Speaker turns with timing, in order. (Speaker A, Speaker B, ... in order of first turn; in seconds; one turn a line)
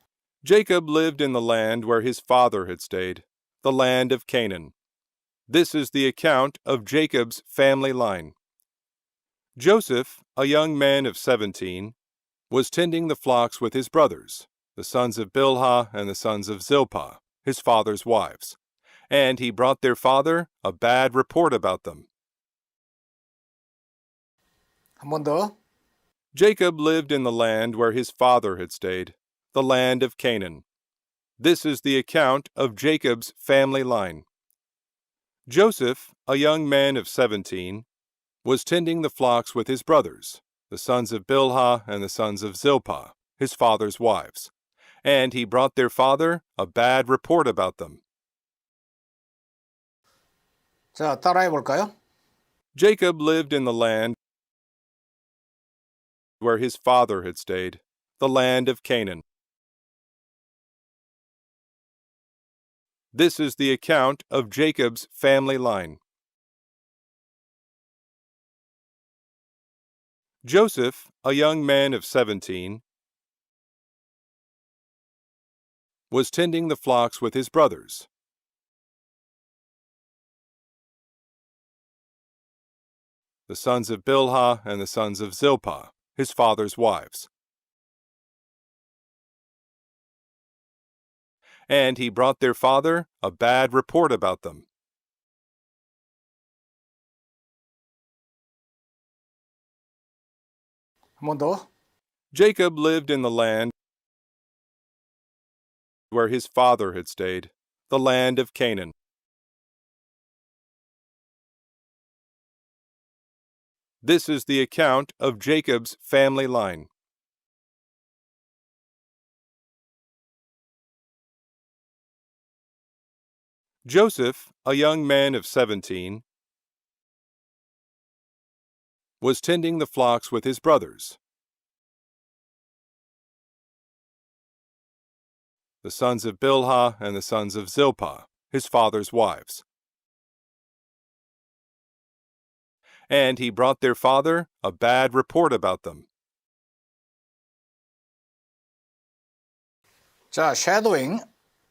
Speaker A: 0.4-4.7
Speaker A: 5.5-8.3
Speaker A: 9.6-11.9
Speaker A: 12.5-18.6
Speaker A: 19.1-22.1
Speaker B: 25.0-25.5
Speaker A: 26.3-30.6
Speaker A: 31.4-34.2
Speaker A: 35.5-37.9
Speaker A: 38.4-44.5
Speaker A: 45.0-48.0
Speaker B: 50.9-51.9
Speaker A: 52.7-54.2
Speaker A: 56.4-59.2
Speaker A: 63.1-66.0
Speaker A: 70.4-72.8
Speaker A: 76.1-78.1
Speaker A: 83.5-87.3
Speaker A: 91.7-94.6
Speaker B: 101.2-101.7
Speaker A: 102.3-103.7
Speaker A: 106.1-108.9
Speaker A: 114.0-116.9
Speaker A: 123.8-126.2
Speaker A: 129.2-131.2
Speaker A: 135.8-139.6
Speaker A: 143.1-146.1
Speaker B: 150.3-151.2